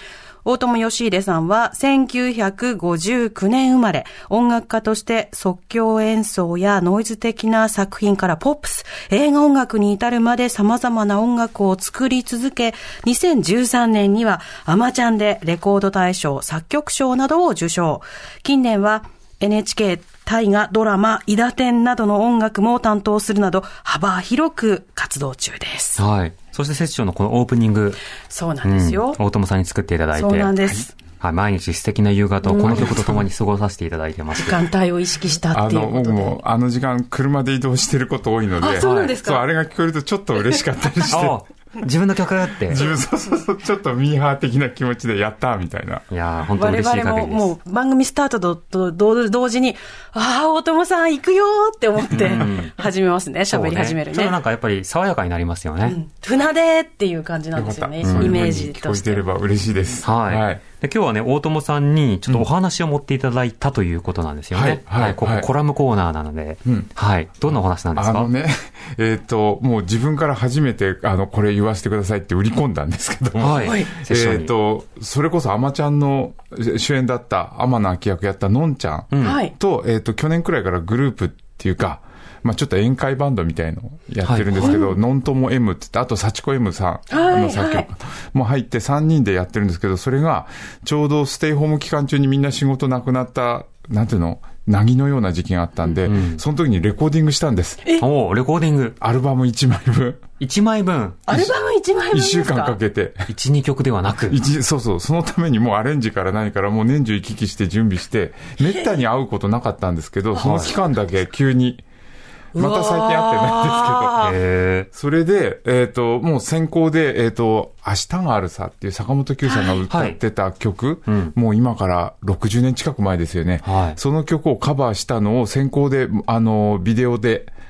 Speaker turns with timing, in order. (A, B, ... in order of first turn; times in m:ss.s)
0:00.4-0:26.0 A
0:26.0-0:28.0 B
0:28.3-0:29.2 A
0:28.6-0:30.6 B
0:30.1-0:30.9 A
0:31.2-0:34.7 B
0:32.4-0:33.0 A
0:32.6-0:33.2 C
0:34.4-0:36.4 A
0:35.5-0:41.4 C
0:38.6-0:39.5 A
0:38.8-0:39.1 B
0:41.1-0:42.8 B
0:42.7-0:46.0 C
0:46.1-0:47.5 B
0:46.5-0:54.4 A
0:52.1-0:52.8 B
0:53.5-0:56.0 B
0:55.8-0:59.2 A
0:57.5-1:00.6 C
0:58.0-0:58.6 B
1:00.0-1:08.3 B
1:04.5-1:05.5 C
1:06.6-1:06.9 C
1:08.0-1:37.8 C
1:13.4-1:14.5 B
1:13.6-1:13.9 A
1:19.1-1:19.4 B
1:19.2-1:19.5 A
1:24.2-1:24.8 B
1:24.6-1:24.9 A
1:27.1-1:27.9 A
1:36.0-1:36.4 B
1:38.0-1:39.0 B
1:39.0-1:40.2 C
1:40.4-1:41.2 B
1:41.3-1:42.8 A
1:41.3-1:41.5 C
1:42.1-1:43.3 C
1:43.3-1:44.4 B
1:44.3-1:51.8 C
1:48.6-1:49.0 A
1:50.4-1:50.7 B
1:50.4-1:50.7 A
1:52.5-1:54.3 A
1:52.5-1:54.3 C
1:54.2-1:54.9 B
1:54.9-2:07.5 C
1:59.4-1:59.8 A
1:59.9-2:00.2 B
2:01.0-2:01.3 B
2:03.6-2:04.0 B